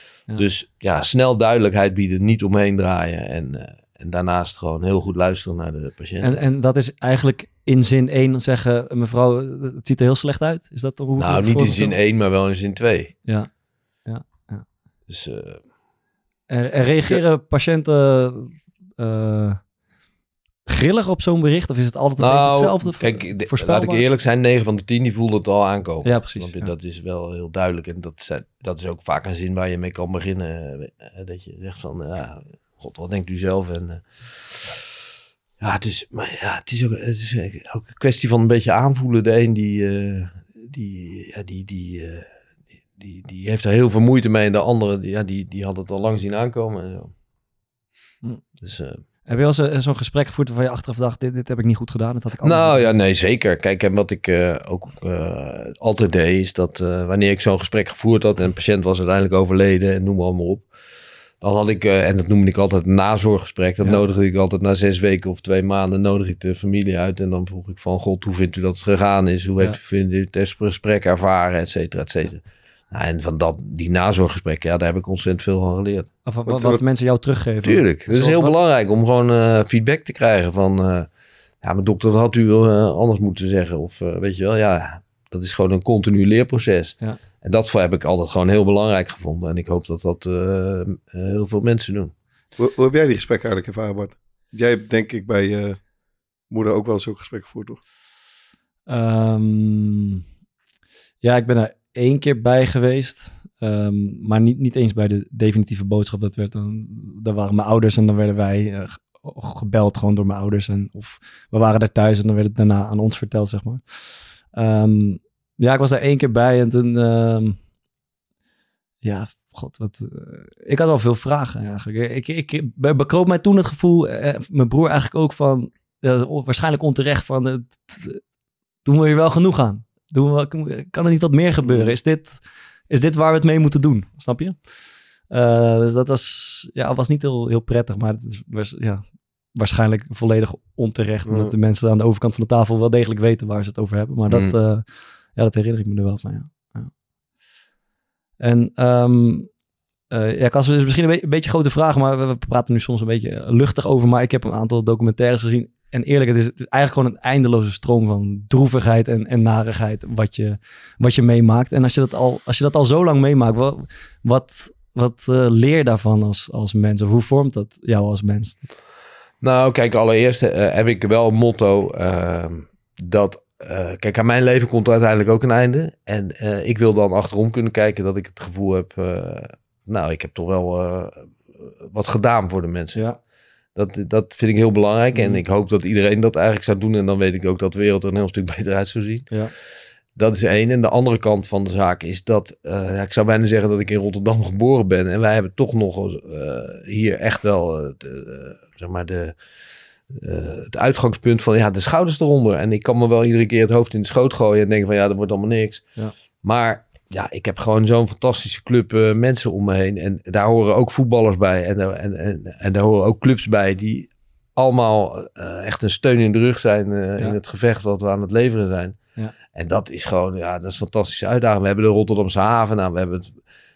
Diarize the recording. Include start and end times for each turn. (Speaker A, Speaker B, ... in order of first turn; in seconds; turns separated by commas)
Speaker A: 0.3-6.4, Speaker B: 6.2-11.9, Speaker A: 11.2-13.1, Speaker B: 14.0-14.7, Speaker A: 15.1-15.6, Speaker B: 16.5-19.7, Speaker B: 20.7-24.0, Speaker A: 22.2-34.8, Speaker B: 26.0-26.7, Speaker A: 35.6-42.2, Speaker A: 43.0-47.1, Speaker A: 48.6-49.0, Speaker B: 49.2-52.9, Speaker A: 52.4-60.7, Speaker A: 61.4-76.1, Speaker B: 76.2-78.6, Speaker C: 76.5-76.8, Speaker A: 77.6-81.1, Speaker A: 81.6-92.1, Speaker C: 92.6-95.8, Speaker C: 96.5-97.8, Speaker B: 98.9-100.2, Speaker B: 101.2-113.9, Speaker B: 114.5-117.6, Speaker B: 119.0-128.2, Speaker B: 128.8-134.7, Speaker B: 135.3-146.9, Speaker C: 141.2-141.5, Speaker A: 144.3-144.5, Speaker B: 148.4-149.5, Speaker B: 150.1-168.6, Speaker A: 169.4-183.0, Speaker A: 183.8-189.4, Speaker B: 185.1-185.4, Speaker A: 190.2-199.3, Speaker A: 200.1-205.9, Speaker A: 206.4-219.0, Speaker A: 219.5-223.4